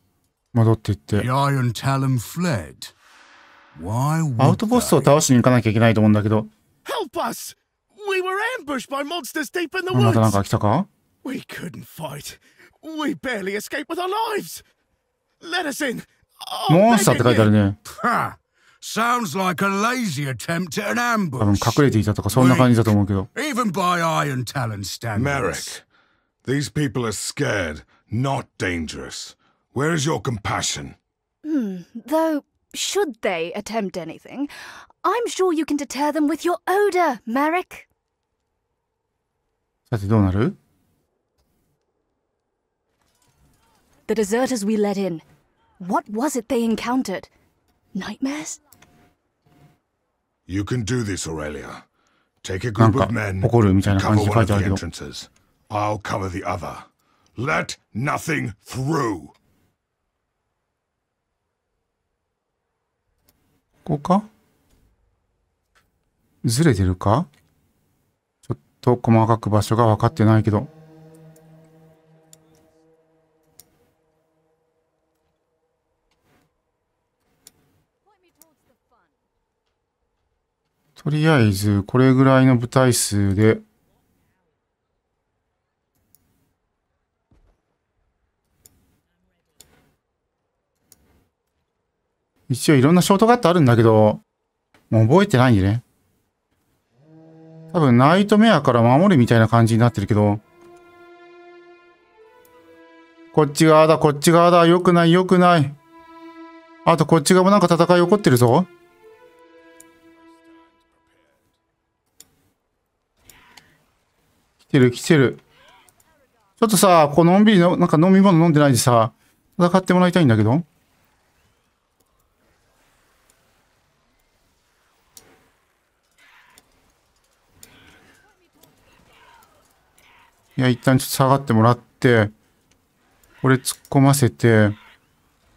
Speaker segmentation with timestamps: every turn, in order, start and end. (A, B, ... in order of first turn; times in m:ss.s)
0:00.5-0:01.3 A
0:01.1-0:02.9 B
0:03.7-0:05.0 B
0:04.4-0:06.5 A
0:06.8-0:10.4 C
0:09.9-0:10.9 A
0:11.2-0:14.6 C
0:15.4-0:17.5 C
0:16.7-0:17.8 A
0:17.8-0:25.7 B
0:21.4-0:23.3 A
0:25.1-0:25.8 D
0:26.4-0:31.0 D
0:31.4-0:37.8 E
0:39.9-0:40.6 A
0:44.1-0:45.2 E
0:45.8-0:47.3 E
0:47.9-0:48.6 E
0:50.5-0:51.8 D
0:52.4-0:59.3 D
0:52.8-0:54.8 A
1:03.8-1:04.3 A
1:06.4-1:07.3 A
1:08.4-1:10.7 A
1:21.0-1:23.6 A
1:32.5-1:34.2 A
1:34.9-1:35.8 A
1:37.7-1:40.4 A
1:43.3-1:45.8 A
1:46.8-1:48.7 A
1:54.7-1:55.4 A
1:56.6-2:00.6 A
2:10.6-2:12.3 A
2:13.4-2:14.8 A